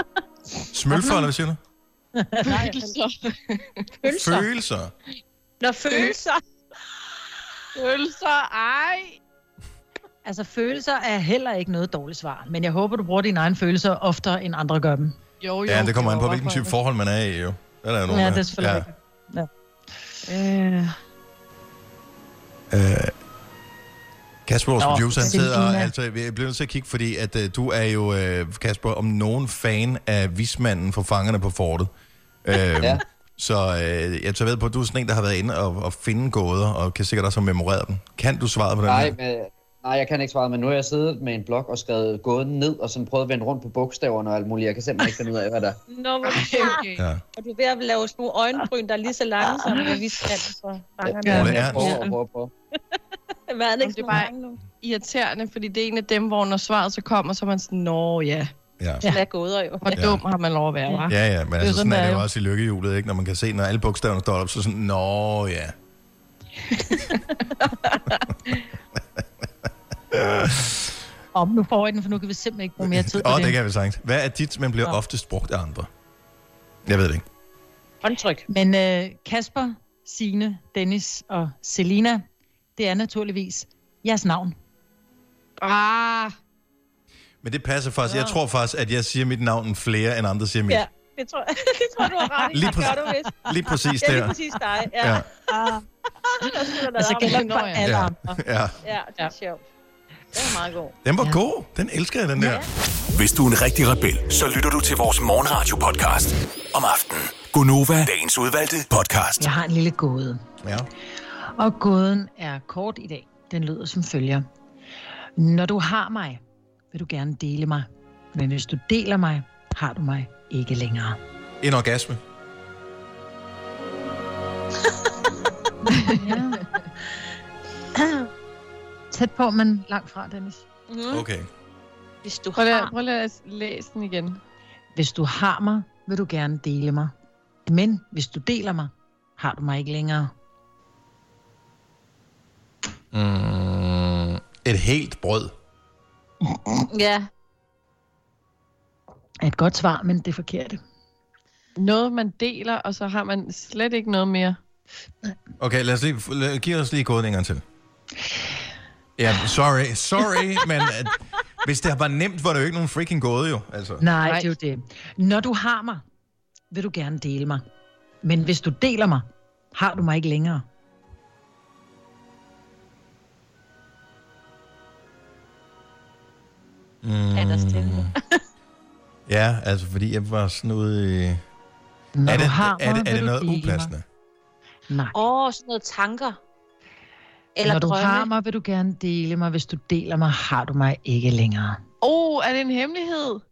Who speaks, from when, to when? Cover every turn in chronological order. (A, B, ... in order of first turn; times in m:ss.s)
0:00.7-0:01.6 A
0:00.9-0:01.3 B
0:02.2-0:02.9 B
0:02.4-0:03.6 C
0:04.0-0:04.5 D
0:04.1-0:04.9 A
0:05.6-0:06.4 D
0:05.9-0:06.1 C
0:07.8-0:09.2 C
0:10.2-0:15.2 B
0:15.4-0:16.7 C
0:15.7-0:18.9 A
0:18.1-0:19.5 B
0:20.3-0:20.9 C
0:22.7-0:23.1 A
0:24.5-0:31.9 A
0:24.8-0:25.9 B
0:32.4-0:39.2 A
0:38.9-0:45.8 E
0:45.9-0:46.8 D
0:46.2-0:47.0 C
0:47.0-0:47.2 A
0:47.4-0:52.1 D
0:51.1-0:52.5 E
0:51.1-0:51.6 C
0:51.2-0:51.9 B
0:51.3-0:52.0 A
0:53.5-0:54.6 D
0:53.8-0:54.3 C
0:54.8-0:58.5 C
0:58.8-0:59.0 A
0:59.0-0:59.9 D
0:59.8-1:02.2 C
0:59.9-1:00.2 A
1:01.1-1:05.7 A
1:10.1-1:10.9 A
1:11.3-1:13.6 B
1:12.8-1:15.9 A
1:16.9-1:17.2 A
1:18.0-1:18.4 D
1:18.5-1:22.2 B
1:22.8-1:24.6 B
1:25.6-1:26.3 D
1:27.4-1:30.8 A
1:30.7-1:33.4 D
1:32.5-1:34.4 A
1:34.0-1:35.4 D
1:35.0-1:35.3 A
1:35.5-1:35.8 B
1:36.4-1:38.4 B
1:36.5-1:37.6 D
1:37.2-1:37.9 C
1:37.8-1:38.8 A
1:38.8-1:39.6 D
1:40.3-1:41.0 D
1:41.0-1:42.7 A
1:42.4-1:42.7 D
1:43.1-1:49.5 F
1:49.4-1:50.4 B
1:50.6-1:50.9 A
1:51.6-1:54.4 B
1:55.4-1:56.4 B
1:56.9-2:01.2 B
2:01.6-2:02.2 A
2:06.1-2:06.7 B
2:08.0-2:08.3 D
2:09.1-2:10.6 B
2:10.9-2:11.2 D
2:11.1-2:11.5 A
2:12.2-2:12.9 D
2:12.6-2:14.4 C
2:15.0-2:17.1 B
2:17.7-2:20.3 B
2:23.1-2:25.5 A
2:26.9-2:27.3 D
2:29.4-2:30.8 B
2:31.8-2:34.6 C
2:35.6-2:37.6 A
2:39.2-2:44.0 A
2:44.0-2:46.0 B
2:44.2-2:44.5 C
2:46.7-2:47.6 B
2:48.2-2:50.7 B
2:57.0-2:58.1 A
2:57.4-2:58.4 D
2:59.3-3:01.4 A
3:02.2-3:03.9 B
3:02.3-3:04.0 A
3:04.9-3:05.2 B
3:05.1-3:06.4 D
3:07.6-3:08.3 D
3:07.6-3:11.8 B
3:12.0-3:13.4 C